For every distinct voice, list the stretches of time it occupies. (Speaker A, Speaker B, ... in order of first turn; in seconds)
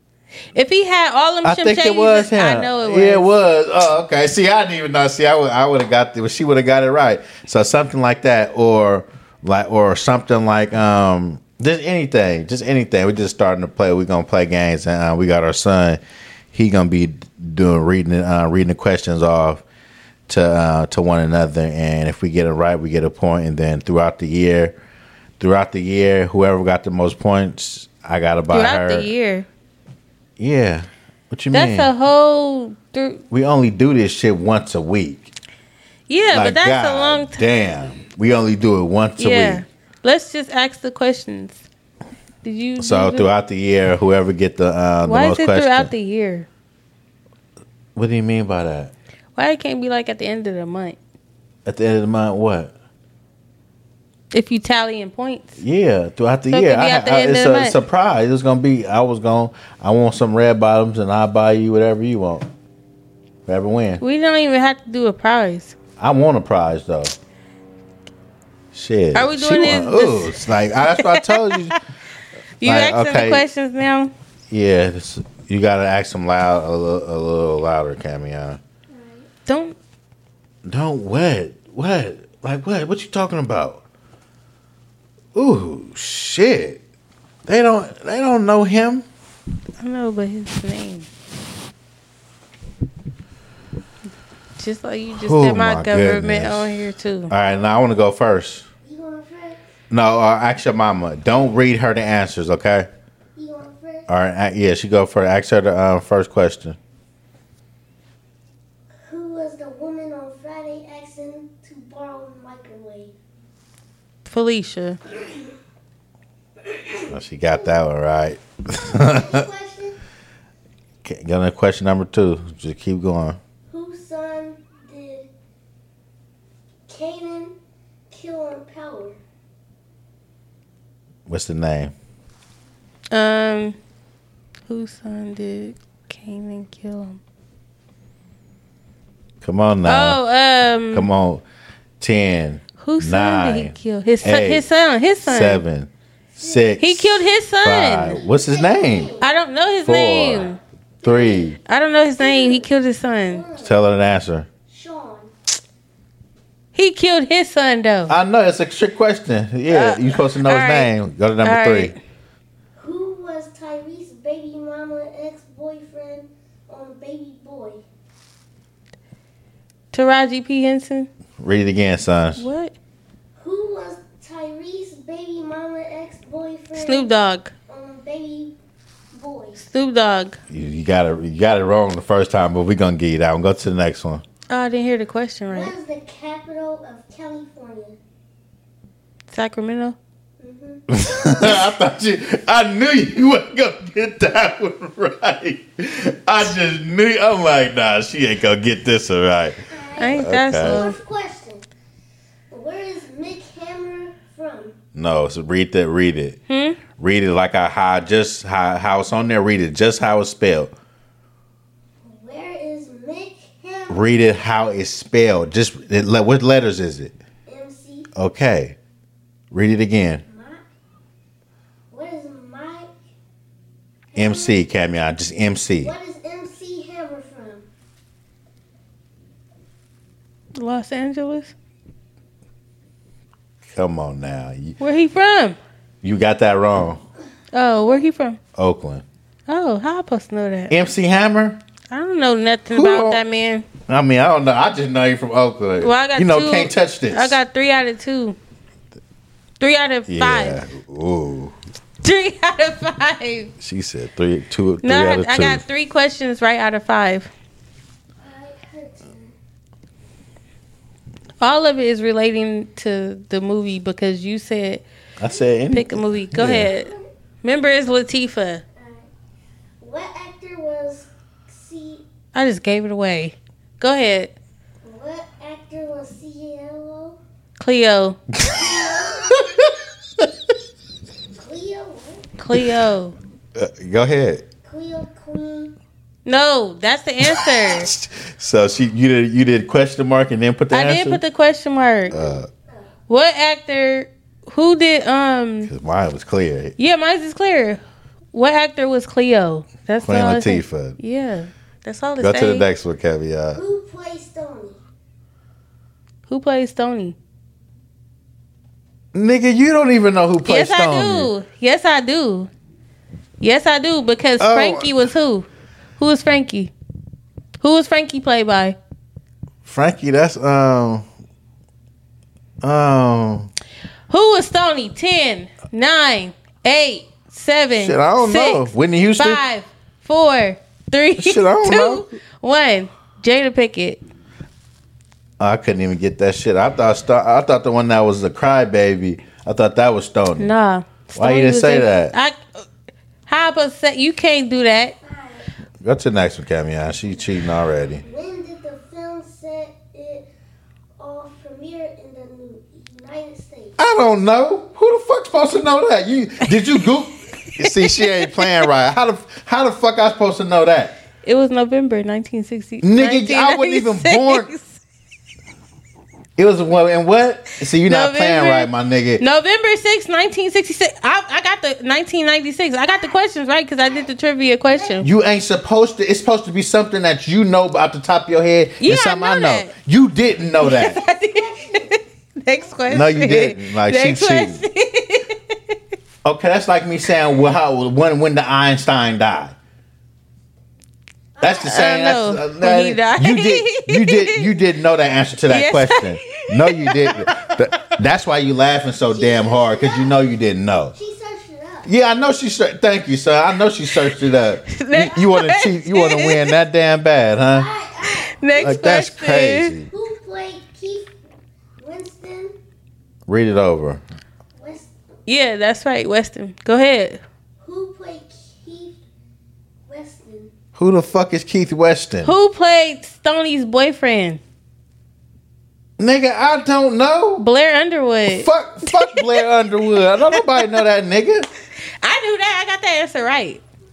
Speaker A: 0.5-3.3, 28.5-29.5, 31.5-33.2, 36.1-37.4, 39.2-41.6, 42.4-43.3, 45.0-46.5, 49.4-51.0, 54.3-55.6, 56.5-57.8, 64.0-65.8, 69.1-71.8, 72.6-74.1, 79.5-79.8, 89.8-91.1, 94.6-97.3, 114.2-115.0, 133.1-133.8, 134.7-137.2, 139.8-141.1, 142.8-145.6, 146.8-148.2, 149.2-150.6, 151.6-153.4, 156.7-158.1, 159.7-162.0, 169.9-171.1, 172.4-172.7, 176.7-177.5, 179.6-180.4, 184.5-185.7, 189.3-190.0, 200.0-201.0, 206.5-206.8, 230.5-231.5, 234.8-235.6, 237.5-238.4, 239.5-240.7, 241.9-243.7, 245.8-248.4, 249.6-250.6, 252.0-253.5, 254.8-257.3, 261.4-264.8, 265.7-266.9, 267.4-268.6, 272.3-274.3, 277.6-278.2, 282.4-283.1, 286.2-287.9, 290.7-292.2, 293.1-295.7, 296.8-297.8, 298.3-302.7, 306.3-307.1, 310.4-312.5, 313.4-315.5, 316.0-316.7, 317.6-318.8, 324.1-334.0, 340.4-342.4, 343.3-344.9, 357.6-358.7, 361.2-364.8, 367.8-375.1, 378.8-379.7, 380.6-385.7, 391.5-394.5, 395.5-397.3, 404.7-406.6, 408.0-409.7, 415.3-417.2, 422.2-424.4, 427.4-429.4, 430.3-430.8, 432.0-433.6
Speaker B: 1.4-16.0, 16.5-19.6, 20.3-24.7, 25.4-29.1, 30.4-31.9, 33.3-35.3, 36.3-39.6, 42.8-45.9, 48.0-48.9, 51.6-52.7, 55.6-62.5, 63.5-64.0, 66.0-67.1, 68.7-71.8, 72.6-73.5, 74.5-78.6, 80.7-83.8, 85.3-86.8, 87.5-89.0, 95.1-96.7, 97.3-98.7, 99.9-102.9, 104.1-106.8, 117.1-119.4, 121.0-123.4, 131.3-131.9, 139.4-140.2, 140.9-141.4, 142.0-144.7, 145.2-149.1, 149.8-150.5, 151.0-151.6, 153.6-154.5, 158.1-161.9, 171.4-172.4, 180.5-184.2, 190.9-199.6, 200.1-200.8, 204.9-206.4, 207.0-210.7, 213.9-217.1, 218.1-218.8, 219.5-220.2, 224.2-225.9, 233.7-234.8, 236.0-237.0, 238.6-239.0, 240.7-241.6, 242.7-243.2, 243.9-247.4, 250.1-251.5, 253.6-255.6, 265.2-266.7, 279.3-279.7, 283.6-284.4, 287.7-291.2, 292.1-292.5, 295.6-296.8, 300.0-301.0, 302.2-303.6, 309.1-311.3, 314.4-314.9, 319.6-321.1, 322.6-323.5, 327.7-329.4, 331.2-332.1, 335.4-340.5, 341.1-342.1, 345.8-348.0, 353.8-360.9, 362.8-364.5, 366.4-369.2, 375.0-381.0, 382.9-384.6, 386.2-389.6, 391.4-400.9, 401.8-407.7, 408.6-409.9, 413.3-414.0, 420.8-422.3, 426.0-427.4, 428.3-431.5
Speaker C: 78.9-79.3, 98.8-99.6, 103.3-104.1, 109.0-113.1, 116.7-117.0, 118.8-120.0, 123.7-125.3, 126.9-127.5, 128.1-129.2, 146.4-146.8, 148.1-149.2, 151.0-151.5, 152.2-152.7, 153.2-153.8, 154.7-155.3, 162.8-167.8, 173.4-177.1, 177.7-178.5, 179.1-179.6, 185.5-188.0, 190.4-191.8, 199.7-201.7, 202.5-204.8, 212.0-214.1, 217.5-218.1, 220.2-220.6, 221.9-222.9, 224.1-224.6, 225.8-227.7, 258.2-259.3, 265.3-265.6, 266.5-267.1, 268.7-269.1, 269.8-272.0, 274.8-277.2, 278.5-279.6, 281.3-282.3, 284.6-285.7, 292.1-292.9, 303.5-304.8, 345.0-345.5, 348.0-350.3, 351.0-353.7, 374.7-375.0, 380.8-382.0, 391.4-391.6, 399.0-400.2, 400.9-401.9, 407.5-408.8, 409.9-411.1, 411.8-412.6, 414.6-414.9, 417.6-419.0, 419.9-420.5